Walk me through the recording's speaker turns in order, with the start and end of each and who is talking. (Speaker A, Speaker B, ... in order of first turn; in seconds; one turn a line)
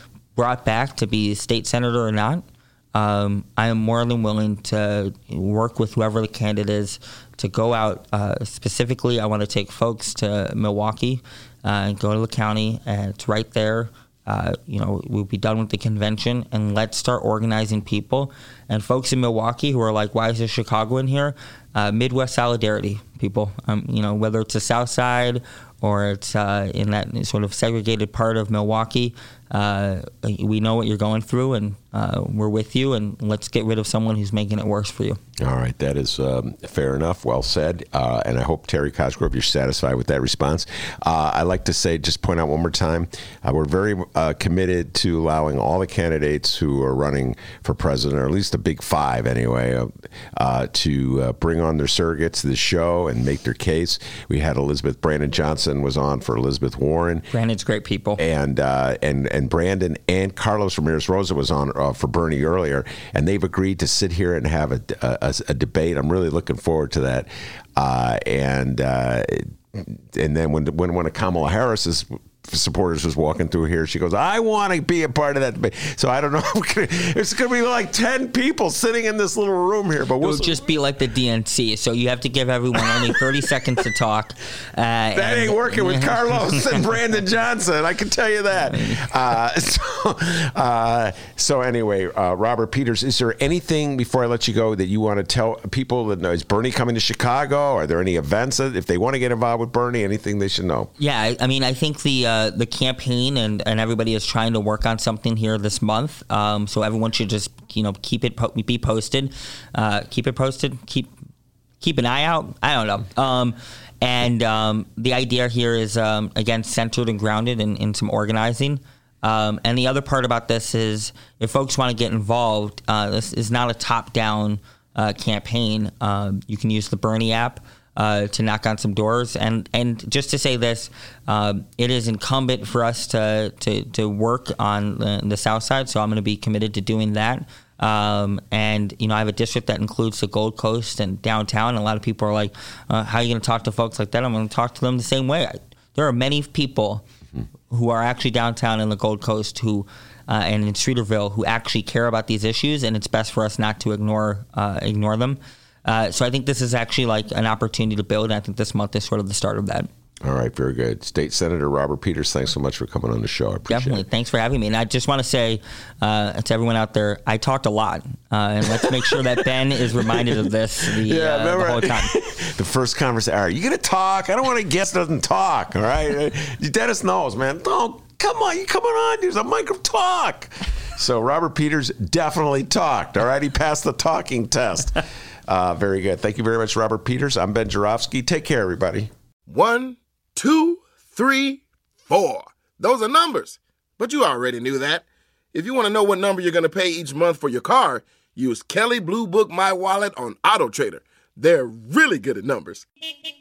Speaker A: 0.4-35.2
Speaker B: 35.4-57.3
Speaker A: 57.3-58.2
Speaker B: 58.2-80.6
Speaker A: 80.2-86.7
Speaker B: 85.1-100.9
Speaker A: 88.7-89.1
Speaker A: 101.0-111.1
Speaker A: 111.8-147.0
Speaker A: 147.7-159.9
Speaker B: 160.2-164.0
Speaker A: 163.7-172.1
Speaker B: 168.7-189.1
Speaker C: 189.5-202.9